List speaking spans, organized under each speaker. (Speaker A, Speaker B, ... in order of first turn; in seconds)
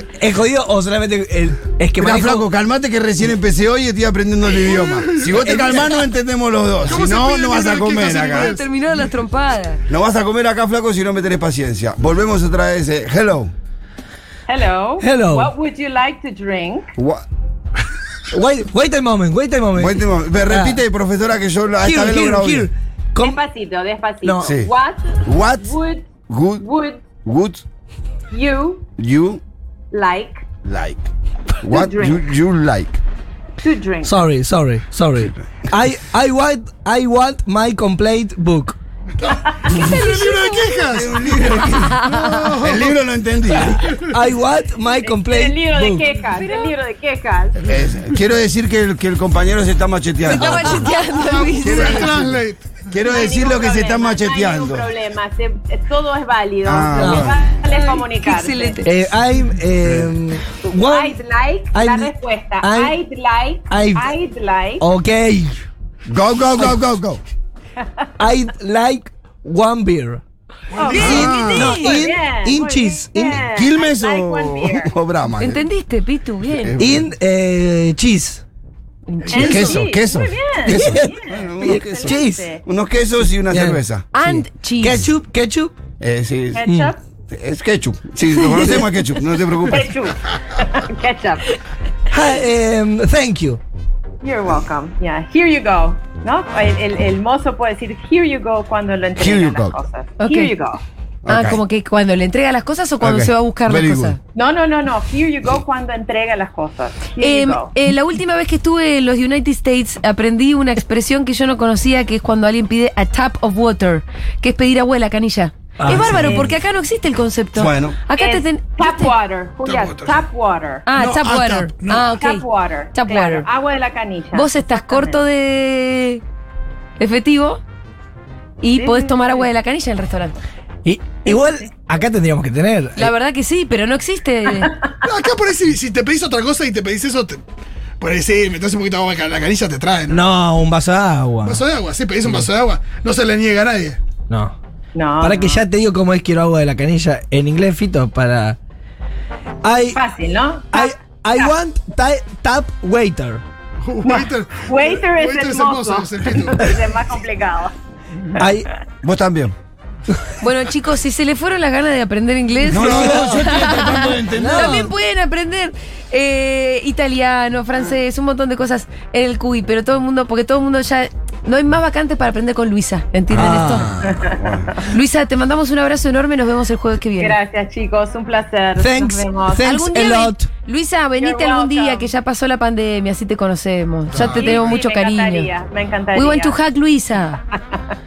Speaker A: 0.2-2.5, 15.0-15.5, 18.3-20.8, 21.8-23.4, 24.2-24.5, 34.0-38.8, 44.0-46.1, 56.9-57.4, 58.8-61.2, 61.7-62.9, 63.7-64.1, 64.8-65.6, 68.2-70.2, 70.9-73.5, 76.8-78.4, 80.7-82.5, 83.5-85.8, 86.6-86.9, 92.1-93.6, 115.8-116.5, 130.8-133.1, 140.1-141.6, 144.3-144.5, 145.2-148.6, 149.6-150.0, 150.7-153.4, 158.4-158.7, 162.8-163.5, 164.3-164.9, 173.3-173.9, 178.8-180.5
Speaker B: 1.9-8.6, 9.9-13.5, 16.9-17.2, 19.7-22.7, 24.4-24.7, 25.2-25.7, 26.3-26.6, 27.2-27.6, 29.0-29.4, 30.6-31.1, 31.6-33.0, 40.8-43.9, 47.6-54.9, 56.6-57.3, 66.1-67.2, 71.0-71.7, 73.5-75.6, 76.5-77.1, 79.3-84.0, 86.0-86.7, 87.3-90.0, 99.2-99.8, 101.2-101.6, 103.0-104.2, 117.5-118.0, 159.0-159.5, 162.6-164.9, 173.3-174.7
Speaker C: 4.6-6.0, 6.8-8.6, 39.2-43.0, 43.6-44.1, 51.4-52.8, 70.7-71.3, 119.6-120.2, 120.9-122.2, 135.0-137.4, 138.0-140.2, 141.4-144.0, 153.8-156.8, 184.1-184.6
Speaker D: 8.0-9.8, 39.7-40.8, 41.6-42.5, 50.2-52.1, 57.6-58.9, 71.1-72.0, 75.4-76.8, 79.1-79.8, 84.1-85.0, 88.4-88.9, 100.2-100.5, 101.3-104.2, 107.2-119.1, 120.8-122.4, 122.9-123.5, 124.3-126.2, 127.0-127.6, 128.6-130.3, 133.0-134.8, 160.4-173.9, 174.8-177.3, 179.6-185.5, 186.1-187.4
Speaker E: 14.5-16.9, 23.2-27.1, 28.3-28.9, 29.9-30.4, 31.6-32.3, 33.6-34.1, 39.3-39.7, 45.0-47.6, 53.0-58.8, 60.7-64.8, 70.7-74.9, 79.3-82.6, 86.5-87.0, 89.7-91.4, 94.2-100.8, 104.3-107.7, 116.0-116.5, 118.1-120.9, 122.1-125.2, 128.8-129.5, 144.9-145.6, 149.9-151.5, 154.0-157.7, 174.0-174.8, 177.2-179.7, 181.2-182.1, 184.1-186.6